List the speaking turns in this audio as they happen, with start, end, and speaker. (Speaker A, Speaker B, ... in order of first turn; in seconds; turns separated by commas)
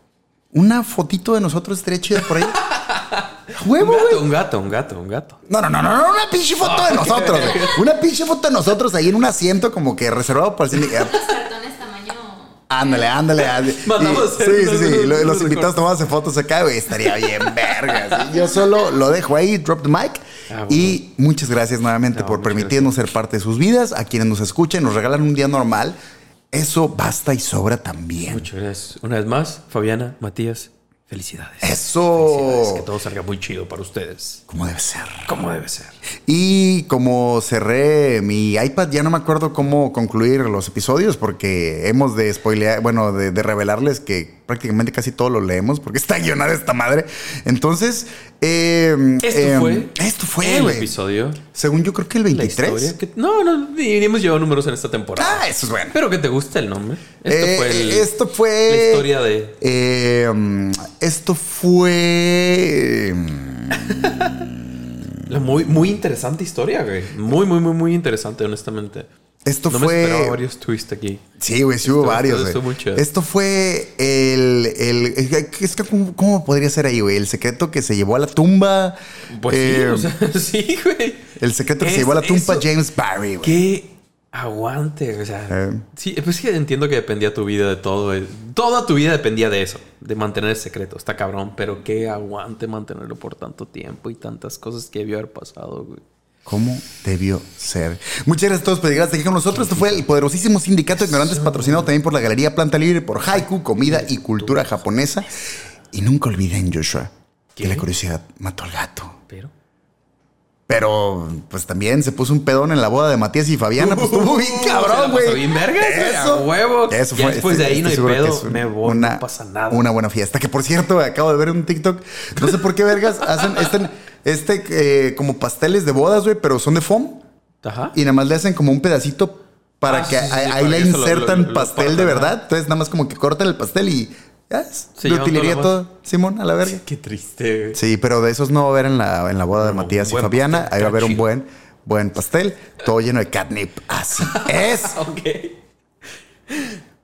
Speaker A: 0.5-2.6, Speaker B: 2.5-5.4, Speaker A: 3.5-4.3, Speaker A: 5.5-11.4, Speaker B: 6.6-7.8, Speaker C: 10.8-13.1, Speaker A: 12.7-26.0, Speaker B: 13.4-15.8, Speaker B: 17.0-18.2, Speaker B: 20.5-21.0, Speaker B: 22.1-23.0, Speaker A: 26.5-28.5, Speaker B: 28.2-34.4, Speaker A: 31.6-32.9, Speaker A: 34.5-35.3, Speaker B: 35.2-36.0, Speaker A: 36.2-50.9, Speaker B: 49.2-51.4, Speaker A: 51.5-52.9, Speaker B: 52.3-58.1, Speaker A: 55.1-56.0, Speaker A: 57.2-65.1, Speaker B: 58.6-59.6, Speaker B: 63.7-64.4, Speaker B: 65.3-69.1, Speaker A: 69.4-70.4, Speaker B: 69.7-71.2, Speaker A: 71.4-80.1, Speaker B: 71.8-73.0, Speaker B: 79.3-82.7, Speaker A: 81.4-83.6, Speaker B: 83.4-96.0, Speaker A: 85.5-85.8, Speaker A: 96.5-105.3, Speaker B: 99.5-100.0, Speaker B: 101.0-101.9, Speaker B: 103.3-104.7, Speaker A: 105.9-109.2, Speaker B: 107.5-107.9, Speaker A: 110.7-127.2, Speaker B: 113.8-119.9, Speaker B: 127.6-128.0, Speaker A: 127.9-136.8, Speaker B: 129.8-132.4, Speaker B: 135.0-135.8, Speaker B: 136.6-137.8, Speaker A: 137.7-144.9, Speaker B: 139.6-141.3, Speaker B: 144.2-145.6, Speaker B: 146.5-146.8